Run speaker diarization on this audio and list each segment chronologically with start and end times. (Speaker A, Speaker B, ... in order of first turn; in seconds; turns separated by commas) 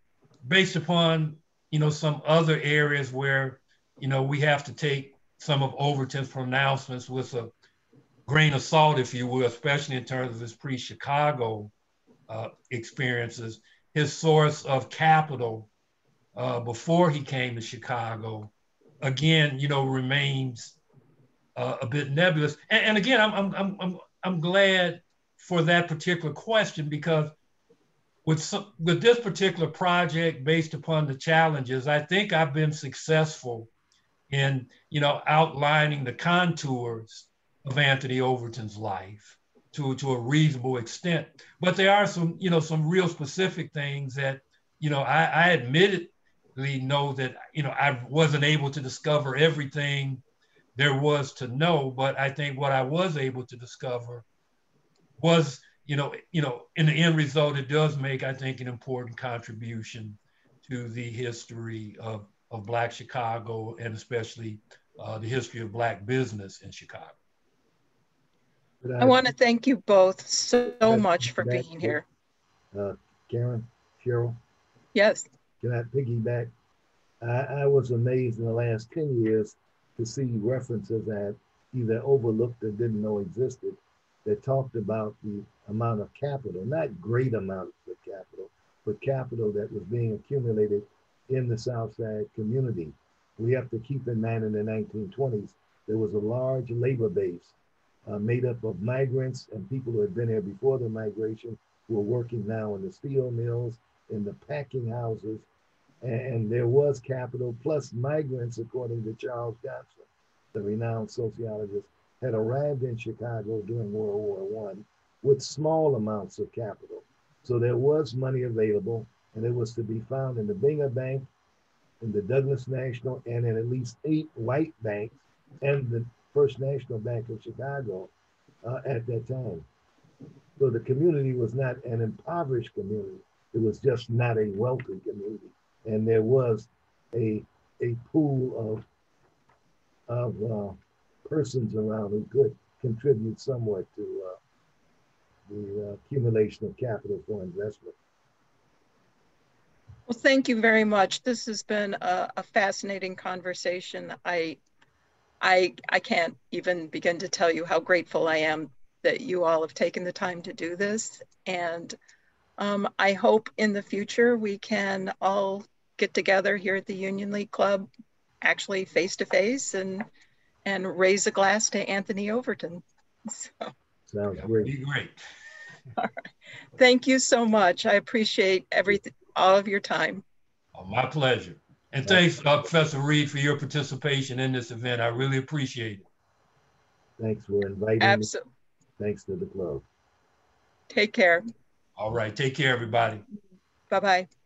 Speaker A: 0.4-7.5, Speaker A: 8.3-11.7, Speaker A: 12.3-15.7, Speaker A: 16.3-20.8, Speaker A: 21.6-27.3, Speaker A: 28.2-33.7, Speaker A: 34.3-50.2, Speaker A: 50.8-54.2, Speaker A: 55.2-67.2, Speaker B: 68.8-69.3, Speaker C: 69.0-72.0, Speaker B: 70.8-72.0, Speaker B: 72.7-74.4, Speaker C: 74.9-75.3, Speaker B: 75.6-76.5, Speaker B: 77.2-97.5, Speaker B: 98.0-105.5, Speaker B: 106.0-121.3, Speaker B: 122.0-128.1, Speaker B: 128.6-129.7, Speaker B: 130.6-138.8, Speaker B: 140.1-144.4, Speaker B: 145.5-148.0, Speaker C: 150.1-154.6, Speaker C: 155.4-161.9, Speaker C: 162.6-167.9, Speaker C: 168.4-170.1, Speaker C: 170.6-173.7, Speaker B: 174.1-174.7, Speaker A: 174.4-175.2, Speaker C: 176.0-176.2, Speaker C: 176.8-180.2, Speaker A: 180.7-186.0, Speaker B: 187.2-188.3, Speaker C: 188.0-188.4, Speaker B: 189.0-189.8, Speaker C: 190.9-191.4, Speaker A: 192.0-193.2, Speaker C: 193.9-194.3